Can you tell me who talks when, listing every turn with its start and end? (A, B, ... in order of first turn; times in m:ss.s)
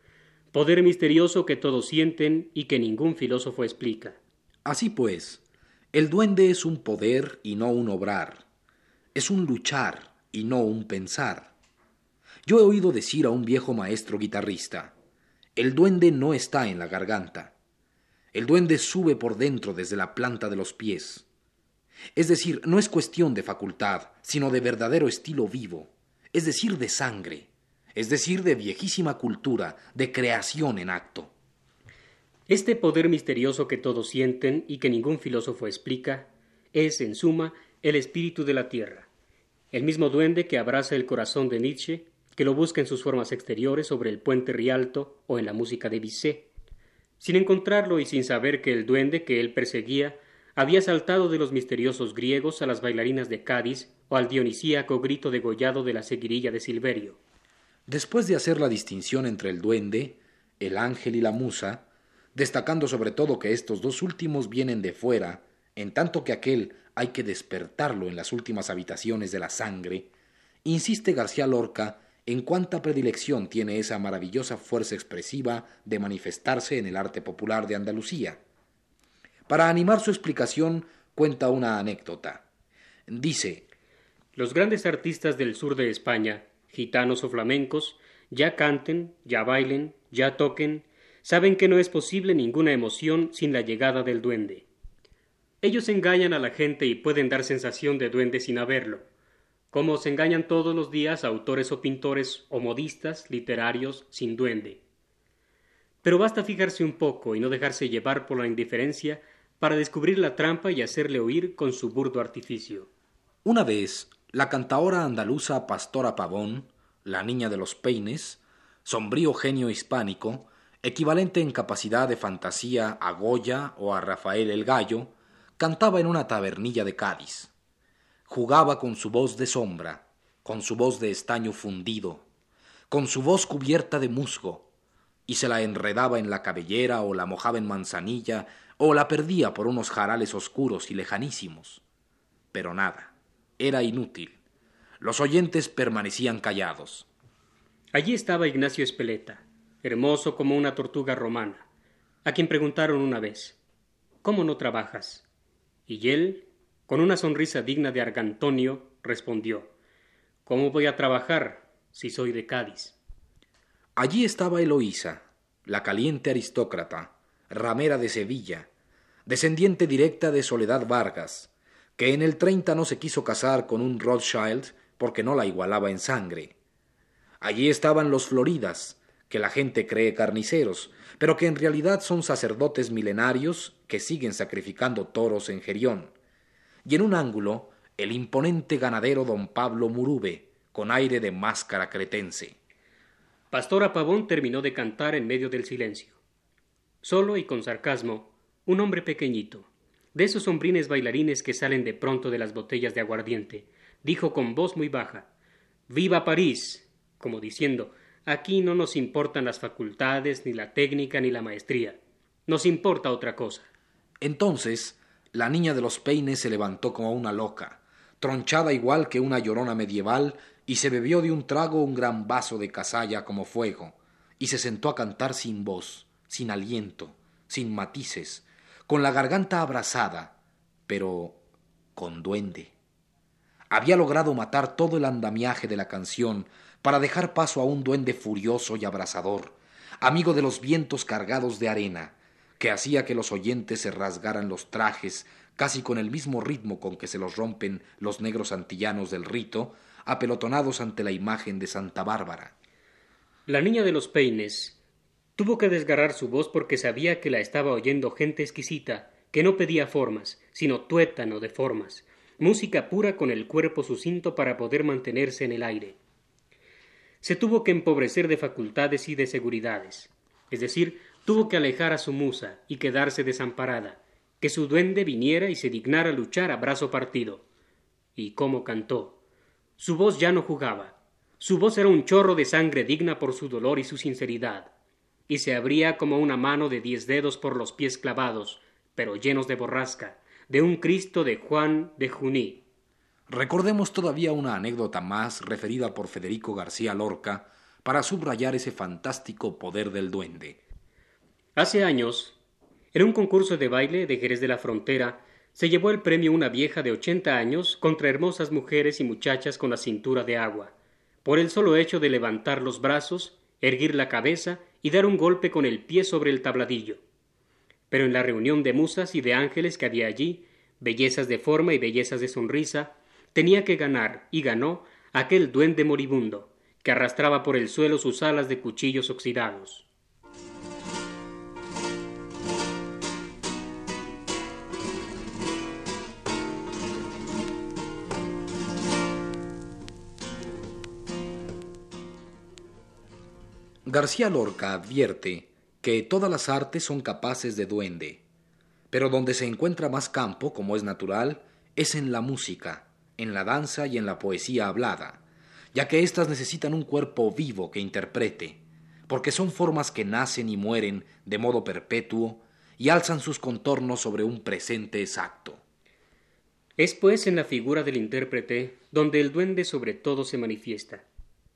0:00.5-0:04.2 A
0:04.6-0:08.4 B
0:09.1-0:11.5 B
0:12.4-0:14.9 B
0:15.6-0:17.5 B
0:18.3-0:21.2 B
0:22.2-0:31.3 B
0:32.5-0:39.1 A
0:39.7-0:46.5 A
0:47.2-0:57.2 A
0:57.9-1:10.1 B
1:10.6-1:18.4 B
1:19.5-1:22.4 B
1:23.1-1:23.6 B
1:24.3-1:34.7 A
1:35.6-1:39.0 A
1:39.7-1:44.8 A
1:46.0-1:52.9 A
1:53.4-2:07.5 B
2:08.3-2:12.2 B
2:12.9-2:14.7 B
2:15.3-2:21.8 B
2:22.5-2:24.4 B
2:25.0-2:27.1 B
2:27.9-2:31.6 A
2:32.2-2:33.6 A
2:34.2-2:35.2 A
2:35.9-2:39.7 A
2:40.4-2:43.0 A
2:44.0-2:48.7 B
2:49.2-2:56.5 B
2:57.4-3:06.1 B
3:06.8-3:12.6 B
3:13.5-3:16.2 A
3:17.0-3:25.3 A
3:25.9-3:33.7 A
3:34.2-3:50.4 B
3:50.9-3:51.4 B
3:52.0-3:52.7 B
3:53.7-4:12.5 B
4:13.5-4:14.8 A
4:15.4-4:26.0 A
4:27.2-4:37.4 A
4:38.2-4:39.2 A
4:39.8-4:44.7 A
4:45.3-4:52.6 A
4:53.3-5:00.6 B
5:01.6-5:02.4 A
5:02.9-5:10.7 A
5:11.2-5:17.0 A
5:17.9-5:29.9 A
5:43.8-5:48.2 B
5:48.9-5:55.2 B
5:55.7-6:05.6 B
6:06.8-6:11.0 A